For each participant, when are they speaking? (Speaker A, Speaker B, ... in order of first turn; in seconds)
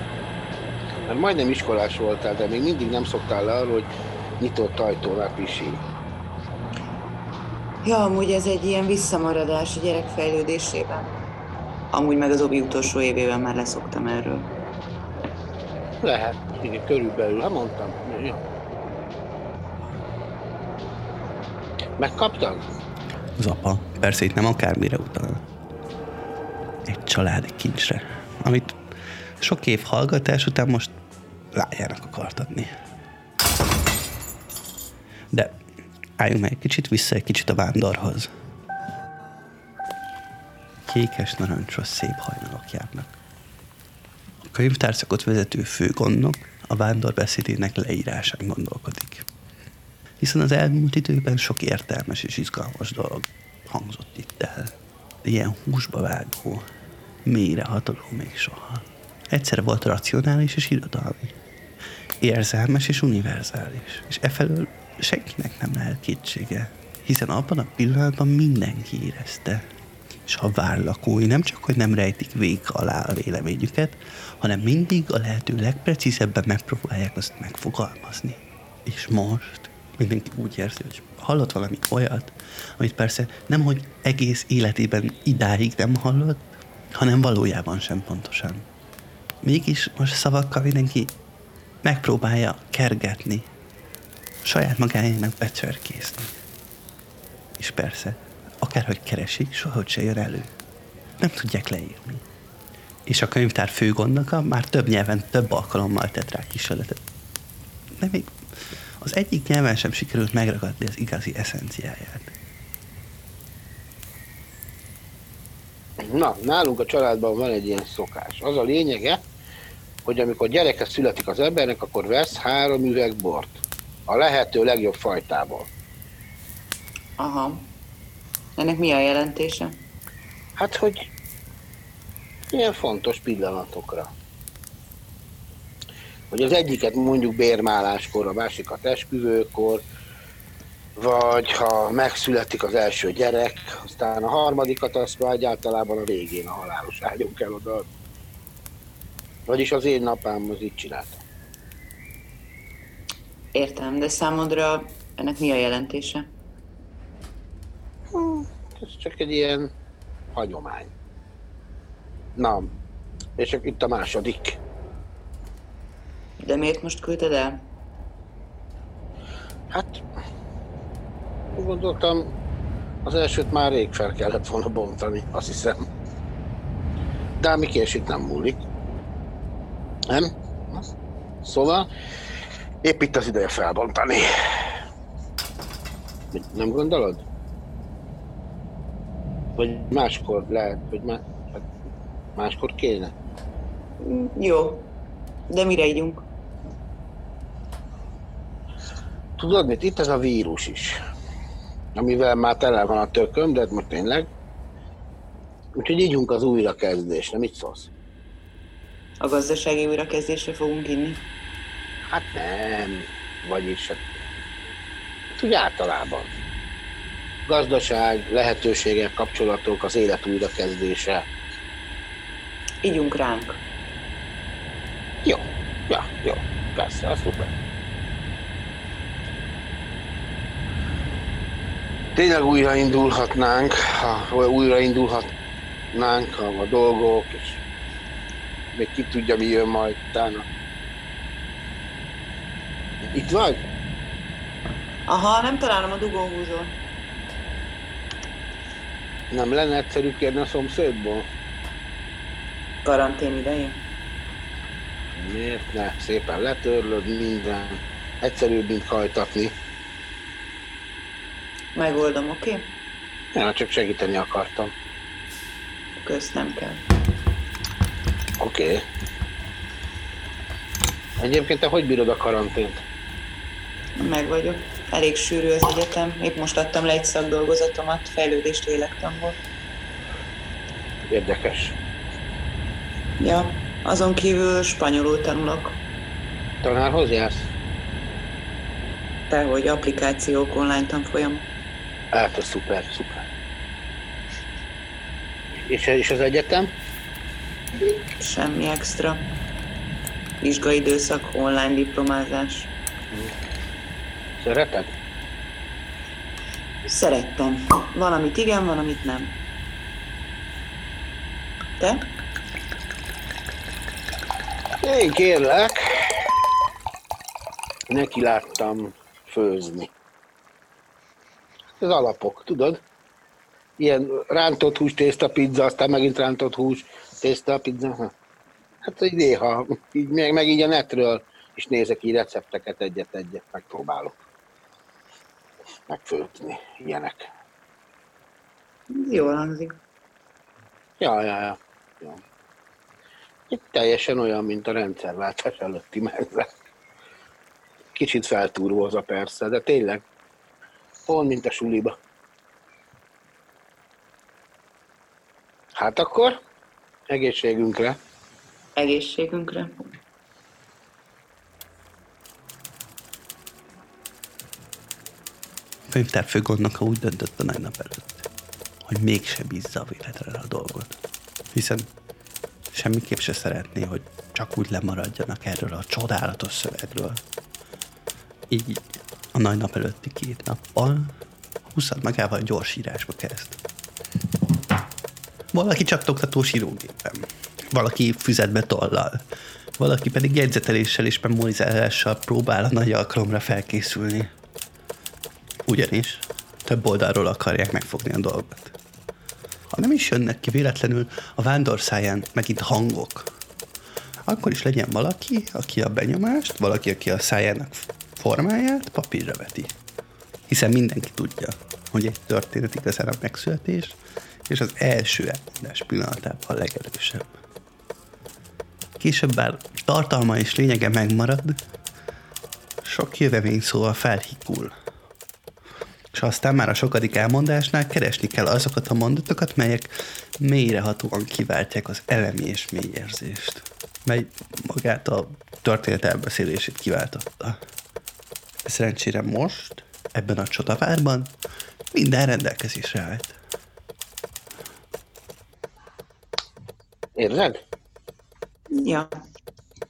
Speaker A: 1.1-5.8, 16.0-18.4, 22.0-22.7, 116.0-119.2, 120.0-125.7, 130.6-131.1, 132.5-134.1, 136.3-139.8, 141.0-147.9, 149.5-151.2, 158.1-159.7, 160.3-160.9, 162.4-162.7, 163.4-164.6, 169.7-170.0, 171.5-172.3, 173.1-175.8, 177.4-178.6, 180.1-180.9, 181.4-181.9, 182.8-184.7, 186.3-187.2, 189.6-191.7, 192.4-193.1, 199.4-201.0, 201.9-204.3, 205.8-207.9, 212.1-214.2, 215.3-216.3, 217.5-221.3, 225.2-227.6, 232.1-235.3, 235.9-237.6, 238.7-240.5, 243.1-243.6, 249.3-251.3, 255.1-259.5, 263.3-264.7, 268.4-268.8, 271.2-272.8, 281.1-281.8, 286.6-287.5, 292.1-293.2, 295.6-296.7, 304.4-304.9, 314.8-316.3, 317.9-319.9, 321.8-322.8, 323.8-328.1, 328.8-334.2, 335.9-337.3, 341.0-342.2, 343.5-346.5, 347.9-350.0, 351.1-351.9, 355.8-356.4, 357.1-358.0, 447.1-447.6
Speaker B: 7.8-11.1, 11.9-14.5, 127.2-127.7, 128.6-129.8, 153.5-156.3, 166.4-167.6, 194.0-194.9, 195.5-196.2, 209.2-211.2, 222.8-223.6, 245.1-246.8, 252.8-253.8, 261.8-262.7, 266.0-266.8, 274.0-279.4, 283.2-285.8, 289.3-291.5, 298.1-299.3, 300.4-302.7, 306.9-309.4, 311.8-312.1, 338.9-339.8, 358.8-359.9, 448.7-449.1
Speaker C: 23.4-25.4, 26.9-28.8, 29.4-30.9, 31.5-32.7, 35.3-35.6, 36.2-38.3, 40.9-43.2, 44.4-49.3, 50.2-56.6, 57.2-61.4, 62.2-69.6, 70.3-88.7, 89.4-91.2, 91.8-93.5, 94.5-96.3, 97.6-100.5, 101.2-102.2, 103.1-107.0, 108.0-112.3, 365.9-368.3, 368.9-370.9, 371.5-371.9, 372.7-377.2, 378.5-381.1, 381.7-383.6, 385.5-389.2, 389.8-394.3, 395.7-398.8, 399.7-403.3, 404.3-409.8, 410.5-417.4, 419.0-421.6, 422.8-424.7, 426.1-437.6, 438.6-441.3, 441.9-443.4